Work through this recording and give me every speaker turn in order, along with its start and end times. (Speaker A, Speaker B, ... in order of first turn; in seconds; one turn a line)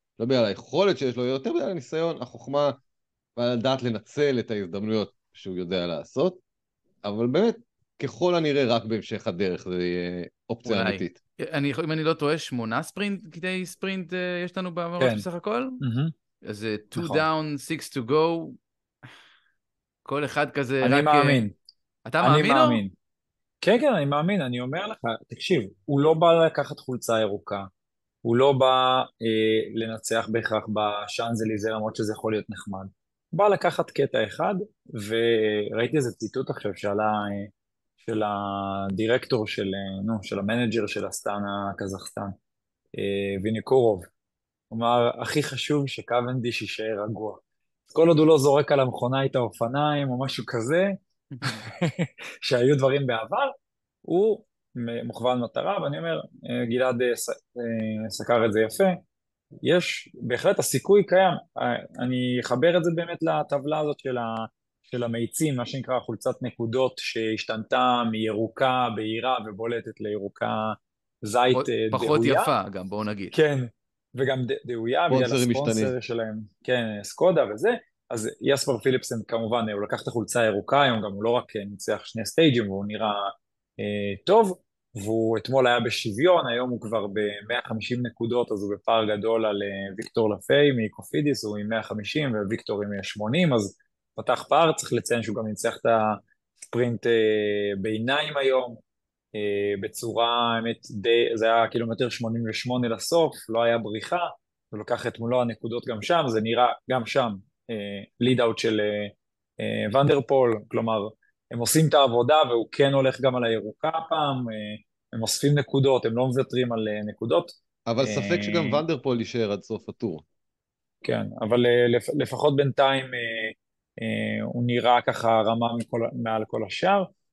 Speaker A: 0.2-2.8
Speaker A: 3.4-6.4
Speaker A: 7.0-11.2
Speaker B: 10.7-15.8
Speaker C: 15.8-16.1
Speaker B: 16.4-18.6
Speaker C: 17.0-17.2
Speaker B: 20.1-21.4
Speaker C: 20.8-21.6
Speaker B: 22.1-22.8
Speaker C: 22.2-22.9
Speaker C: 23.6-27.7
Speaker C: 28.2-42.3
Speaker C: 43.0-44.1
Speaker C: 44.7-53.5
Speaker B: 51.4-51.6
Speaker C: 54.0-59.0
Speaker C: 59.6-72.5
Speaker B: 71.5-73.3
Speaker C: 73.3-98.8
Speaker A: 75.1-75.9
Speaker C: 99.3-118.8
Speaker A: 117.9-120.2
Speaker C: 121.0-127.1